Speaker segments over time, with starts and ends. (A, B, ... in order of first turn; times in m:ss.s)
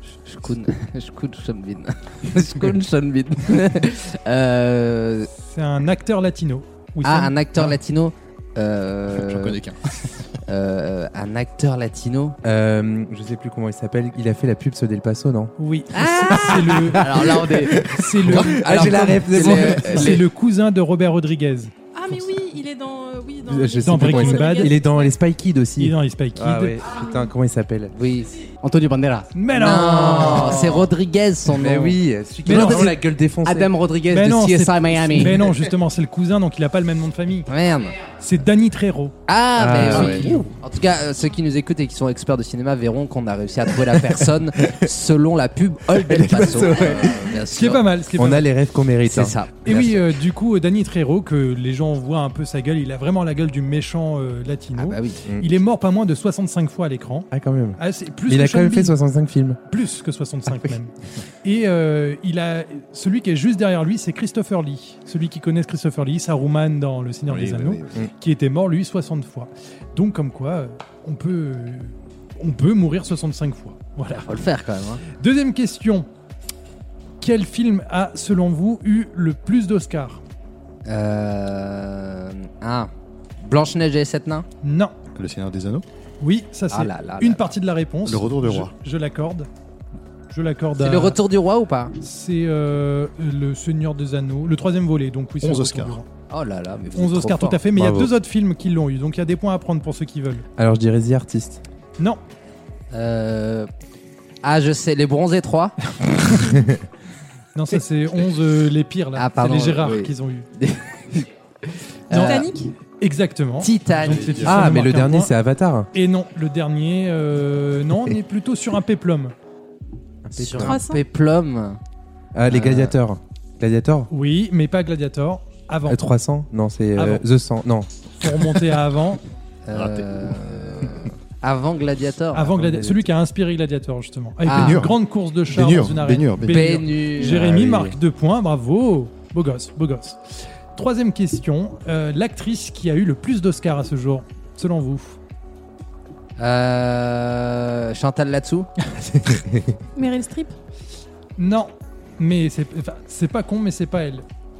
0:00.2-0:05.3 A
0:05.4-0:07.8 B
0:07.0-0:09.6 A
0:09.2-0:10.2 C
0:10.5-0:12.4 A
0:12.4-0:15.5 D
0:15.6-0:21.7 B
0:15.9-0:20.2 A
0:18.3-0:18.5 C
0:18.3-0:20.1 D
0:21.9-0:25.1 E
0:23.5-0:27.9 D
0:23.8-0:24.8 B
0:25.8-0:26.8 B
0:27.9-0:28.4 A
0:28.6-0:29.3 F
0:29.3-0:30.9 B
0:29.5-0:32.0 A
0:31.5-0:33.8 D
0:32.5-0:32.9 B
0:32.5-0:35.4 F
0:34.1-0:37.5 B
0:37.5-0:38.0 A
0:38.2-0:39.2 B
0:39.3-0:47.8 A
0:39.6-0:40.4 D
0:39.8-0:40.5 B
0:46.1-0:47.2 D
0:46.9-0:48.5 B
0:48.1-0:49.3 D
0:49.0-0:50.1 A
0:49.6-0:58.9 B
0:54.7-0:55.2 A
0:57.3-0:59.6 D
0:59.7-1:14.5 B
1:07.2-1:08.0 C
1:14.1-1:15.0 A
1:15.2-1:16.1 B
1:17.2-1:20.2 B
1:20.8-1:22.9 A
1:23.4-1:24.4 A
1:24.6-1:24.9 B
1:25.1-1:25.8 C
1:26.2-1:29.5 B
1:26.7-1:27.5 A
1:28.0-1:28.7 C
1:30.3-1:31.2 B
1:30.8-1:31.9 A
1:32.0-1:36.0 B
1:35.4-1:36.0 C
1:36.3-1:37.6 A
1:36.9-1:40.4 B
1:37.7-1:38.1 D
1:40.6-1:41.6 D
1:42.9-1:43.7 A
1:44.4-1:45.7 A
1:47.5-1:50.5 B
1:49.2-1:51.3 A
1:52.1-1:52.5 A
1:52.1-1:52.4 B
1:52.1-1:52.7 E
1:53.0-1:55.3 B
1:53.6-1:54.5 A
1:54.0-1:54.7 C
1:54.4-1:55.9 D
1:55.9-1:59.3 B
2:00.2-2:00.8 D
2:00.4-2:01.8 A
2:00.6-2:01.0 E
2:02.3-2:04.1 D
2:02.5-2:03.0 A
2:04.1-2:06.0 B
2:05.9-2:07.9 D
2:07.0-2:07.2 B
2:08.2-2:09.2 B
2:09.6-2:12.6 A
2:09.7-2:11.1 C
2:12.3-2:25.2 B
2:12.5-2:13.0 D
2:14.4-2:14.8 A
2:14.5-2:16.7 C
2:16.5-2:17.4 A
2:17.2-2:18.0 D
2:26.4-2:28.7 A
2:29.9-2:30.5 E
2:31.4-2:34.2 B